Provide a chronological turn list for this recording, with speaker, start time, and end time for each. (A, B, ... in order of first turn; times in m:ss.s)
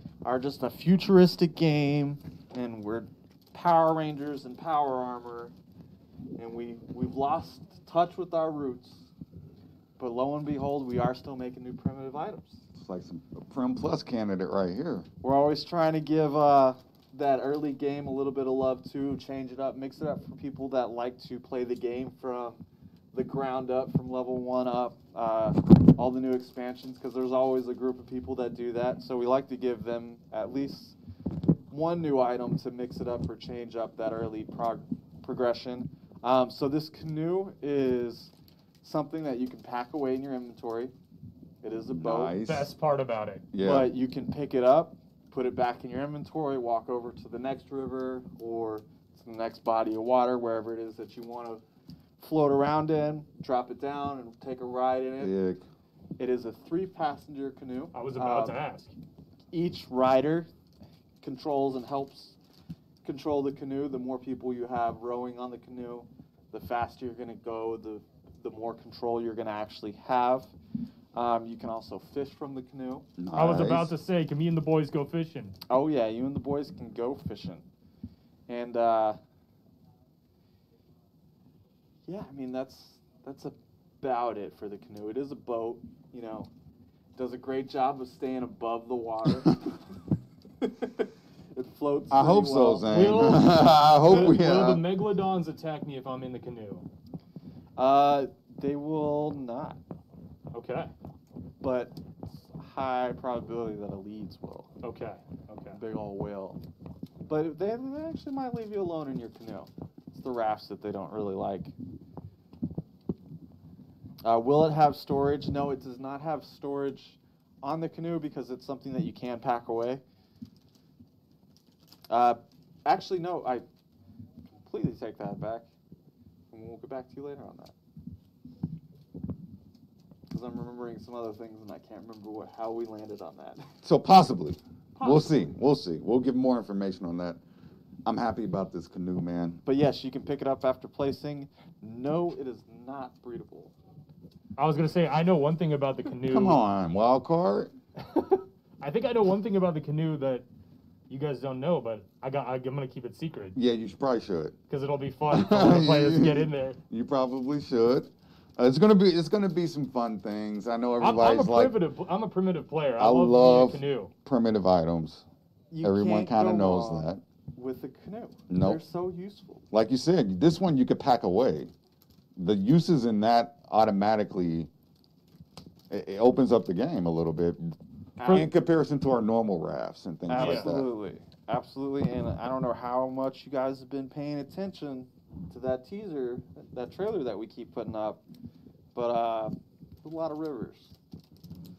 0:00.2-0:05.5 A
0:06.4-0:09.1 A
0:10.0-0:12.6 A
0:12.8-0:15.1 B
0:15.2-0:31.0 A
0:31.7-0:40.9 A
0:41.6-0:42.4 A
0:42.0-0:42.7 B
0:42.4-0:43.5 C
0:43.5-0:43.9 B
0:43.6-0:51.6 A
0:52.2-0:55.3 A
0:55.2-0:55.6 B
0:56.2-0:58.6 A
0:57.9-0:58.9 C
0:59.5-1:00.5 A
1:01.2-1:02.4 A
1:03.0-1:10.5 A
1:11.1-1:13.1 A
1:13.2-1:14.0 B
1:13.3-1:15.6 C
1:15.7-1:17.7 A
1:18.5-1:19.2 A
1:22.1-1:26.5 A
1:27.2-1:29.6 A
1:30.6-1:32.9 A
1:32.1-1:34.8 B
1:32.9-1:36.9 C
1:37.8-1:39.8 A
1:40.5-1:40.9 C
1:41.6-1:44.7 A
1:44.8-1:45.8 C
1:45.7-1:46.6 A
1:47.3-1:51.7 A
1:54.2-2:00.0 A
2:02.1-2:03.7 A
2:04.5-2:05.7 A
2:06.5-2:07.8 A
2:10.3-2:13.7 A
2:13.8-2:17.4 B
2:15.0-2:15.5 A
2:18.1-2:19.6 B
2:19.6-2:23.8 A
2:24.6-2:26.6 C
2:26.3-2:27.7 B
2:28.1-2:30.5 C
2:31.1-2:33.6 C
2:33.6-2:34.6 B
2:34.7-2:36.8 C
2:35.3-2:41.8 B
2:41.0-2:44.1 C
2:43.0-2:45.2 B
2:45.7-2:49.6 A
2:45.8-2:47.2 B
2:48.5-2:48.8 B
2:49.7-2:51.7 B
2:52.4-2:54.7 B
2:55.9-2:57.8 B
2:58.2-2:58.5 A
2:58.3-3:00.9 B
3:00.3-3:08.2 A
3:00.4-3:00.7 C
3:09.0-3:11.0 A